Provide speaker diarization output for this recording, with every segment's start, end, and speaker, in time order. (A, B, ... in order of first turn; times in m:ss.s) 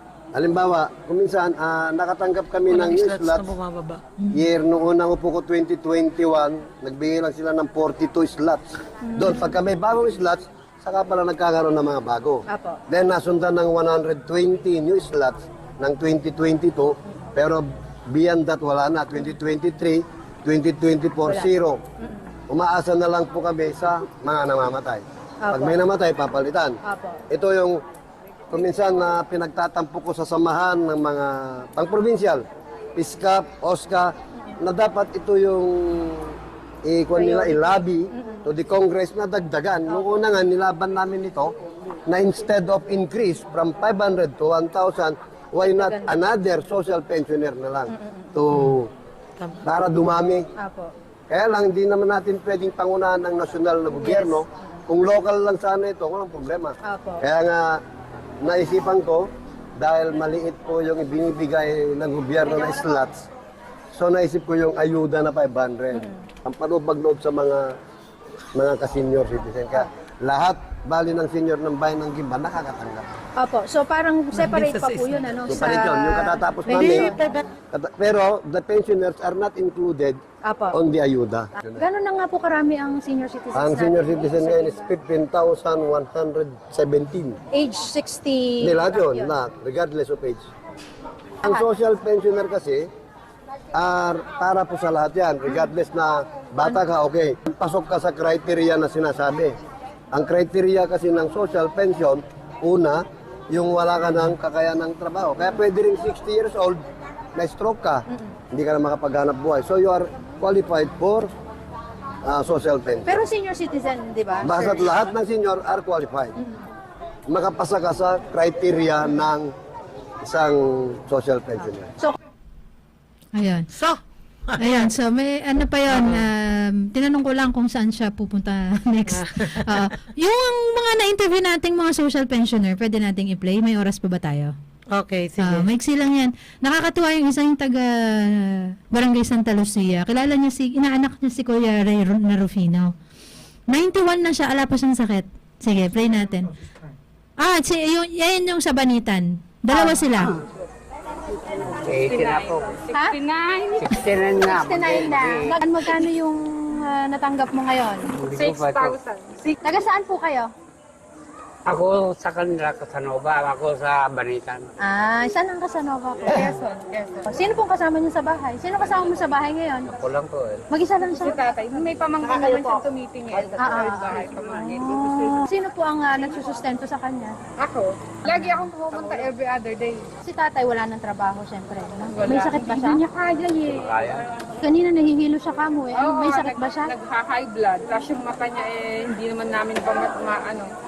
0:00.4-0:03.5 A
0:02.7-0:04.0 B
0:04.3-0:21.8 A
0:09.0-0:09.6 C
0:12.5-0:12.8 C
0:21.3-0:22.4 C
0:22.5-0:26.8 A
0:25.4-0:25.8 C
0:26.9-0:27.2 C
0:27.3-0:27.8 A
0:28.5-0:32.4 A
0:33.0-0:41.5 A
0:37.2-0:38.4 C
0:42.1-0:48.9 A
0:45.6-0:46.2 C
0:47.9-0:48.4 C
0:49.4-0:49.6 B
0:49.6-0:50.5 A
0:50.6-0:50.9 C
0:51.3-0:57.8 A
0:53.9-0:54.8 C
0:56.9-0:57.2 C
0:58.4-1:03.3 A
1:03.9-1:07.7 A
1:05.9-1:06.2 C
1:08.6-1:13.1 A
1:13.4-1:17.4 C
1:14.4-1:15.8 B
1:15.5-1:17.2 A
1:16.7-1:17.4 B
1:17.7-1:20.2 A
1:20.4-1:20.8 C
1:20.7-1:21.8 A
1:21.7-1:24.9 C
1:23.5-1:27.4 A
1:27.5-1:29.3 C
1:28.6-1:30.5 A
1:31.4-1:32.9 A
1:33.7-1:39.6 A
1:40.1-1:46.8 A
1:47.4-1:51.3 A
1:48.1-1:48.4 C
1:52.2-1:53.2 A
1:53.0-1:54.8 C
1:54.4-1:56.4 A
1:56.4-1:56.7 C
1:57.3-1:59.5 A
2:00.2-2:01.9 A
2:03.4-2:03.7 D
2:03.7-2:04.9 B
2:04.6-2:14.6 D
2:05.9-2:06.2 B
2:09.1-2:09.9 B
2:14.9-2:15.7 B
2:15.4-2:22.9 D
2:23.7-2:26.6 D
2:27.4-2:30.3 D
2:29.7-2:30.1 C
2:31.6-2:32.7 E
2:31.9-2:34.0 F
2:33.8-2:35.6 E
2:34.4-2:38.1 C
2:38.1-2:39.0 E
2:38.3-2:39.6 F
2:39.6-2:40.5 C
2:41.7-2:44.7 E
2:44.8-2:46.6 C
2:46.3-2:47.3 F
2:47.3-2:49.9 C
2:49.9-2:50.6 E
2:50.7-2:51.9 C
2:51.2-2:55.4 F
2:52.3-2:52.7 E
2:53.6-2:54.2 C
2:54.8-2:57.4 C
2:57.6-3:00.1 F
2:58.3-2:58.7 C
2:59.0-2:59.2 E
3:00.2-3:03.0 C
3:02.2-3:04.0 F
3:03.6-3:04.2 E
3:04.6-3:06.9 C
3:05.9-3:10.7 F